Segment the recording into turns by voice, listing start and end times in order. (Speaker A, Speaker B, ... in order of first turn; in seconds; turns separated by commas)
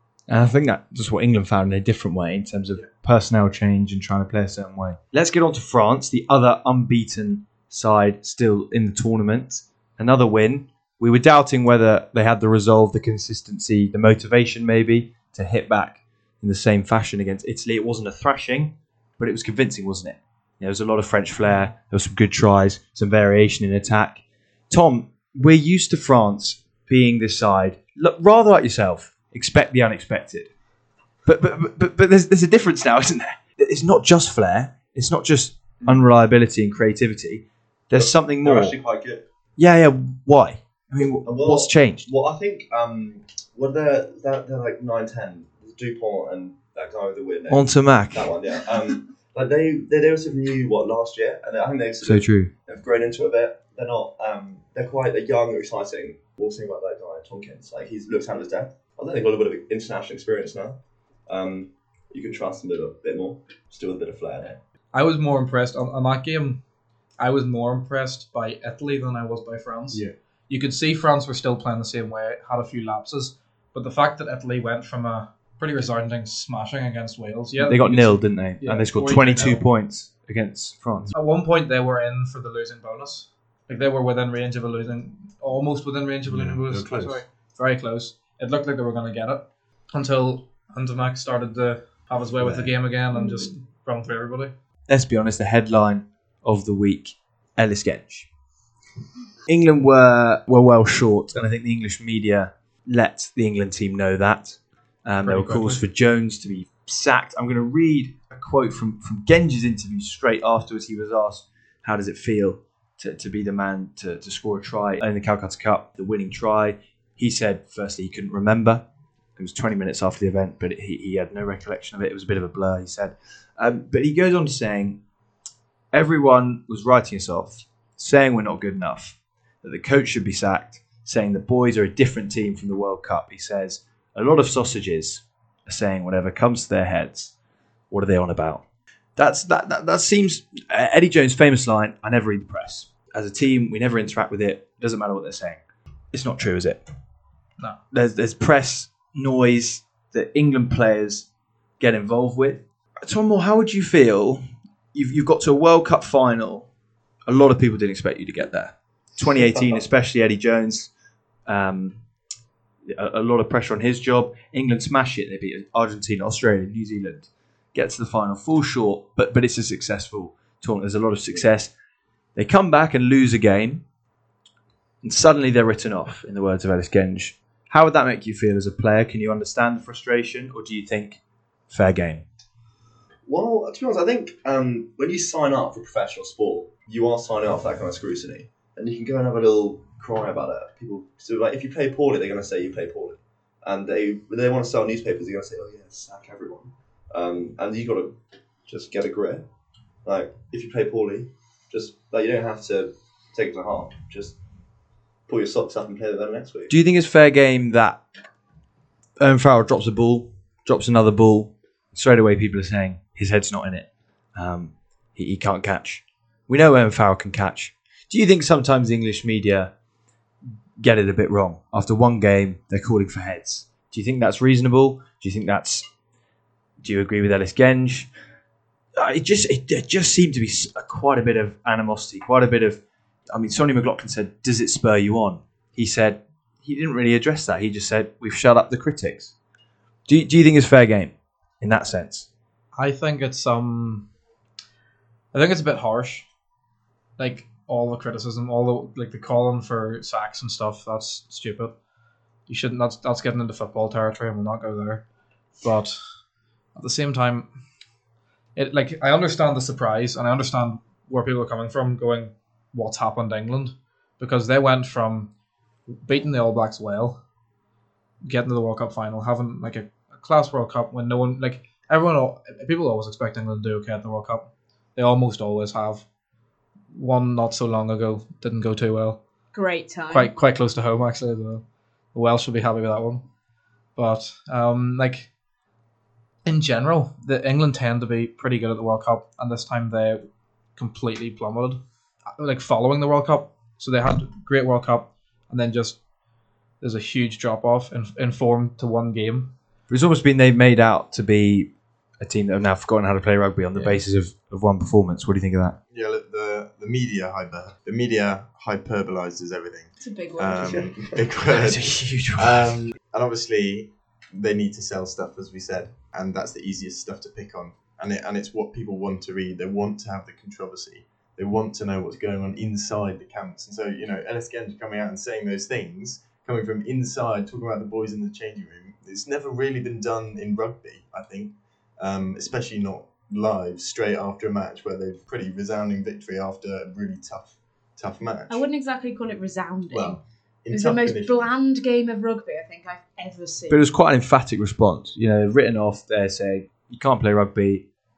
Speaker A: 0.3-30.5, Speaker A: 31.3-38.8, Speaker B: 37.9-39.2, Speaker A: 39.6-42.1, Speaker B: 41.2-64.6, Speaker A: 47.5-48.3, Speaker A: 52.0-52.5, Speaker C: 64.9-66.6, Speaker C: 67.2-79.7, Speaker A: 77.6-81.1, Speaker C: 81.1-94.5, Speaker D: 86.3-87.2, Speaker D: 92.4-92.7, Speaker A: 94.9-98.3, Speaker A: 99.5-118.8, Speaker C: 105.2-105.8, Speaker A: 119.4-125.0, Speaker A: 125.9-137.3, Speaker A: 137.9-138.6, Speaker A: 139.2-145.6, Speaker A: 146.1-146.8, Speaker A: 147.9-151.3, Speaker A: 151.8-154.4, Speaker A: 154.9-156.7, Speaker A: 157.3-160.9, Speaker A: 161.5-162.0, Speaker A: 162.9-171.7, Speaker A: 172.4-173.8, Speaker A: 175.0-182.2, Speaker B: 183.2-198.2, Speaker B: 198.7-199.4, Speaker B: 200.1-204.4, Speaker B: 205.3-206.7, Speaker A: 206.7-208.0, Speaker A: 209.2-219.7, Speaker A: 220.8-225.8, Speaker A: 226.8-228.1, Speaker A: 229.0-232.8, Speaker A: 233.3-239.3, Speaker A: 240.1-242.3, Speaker C: 242.8-244.1, Speaker C: 245.3-246.3, Speaker C: 247.2-251.7, Speaker C: 252.5-255.0, Speaker C: 255.6-256.0, Speaker C: 256.8-257.5, Speaker C: 258.6-265.3, Speaker C: 266.1-267.2, Speaker C: 268.2-276.1, Speaker C: 276.9-279.2, Speaker E: 279.5-280.3, Speaker C: 280.1-281.6, Speaker C: 282.1-283.2, Speaker C: 284.0-285.3, Speaker C: 286.4-290.2, Speaker C: 290.8-291.8, Speaker C: 292.4-296.0, Speaker C: 296.8-299.5, Speaker A: 299.9-305.8, Speaker D: 305.9-338.6, Speaker E: 310.0-310.9, Speaker A: 311.5-312.8, Speaker E: 338.5-340.2, Speaker D: 339.9-341.4, Speaker E: 340.7-343.8, Speaker A: 343.7-347.8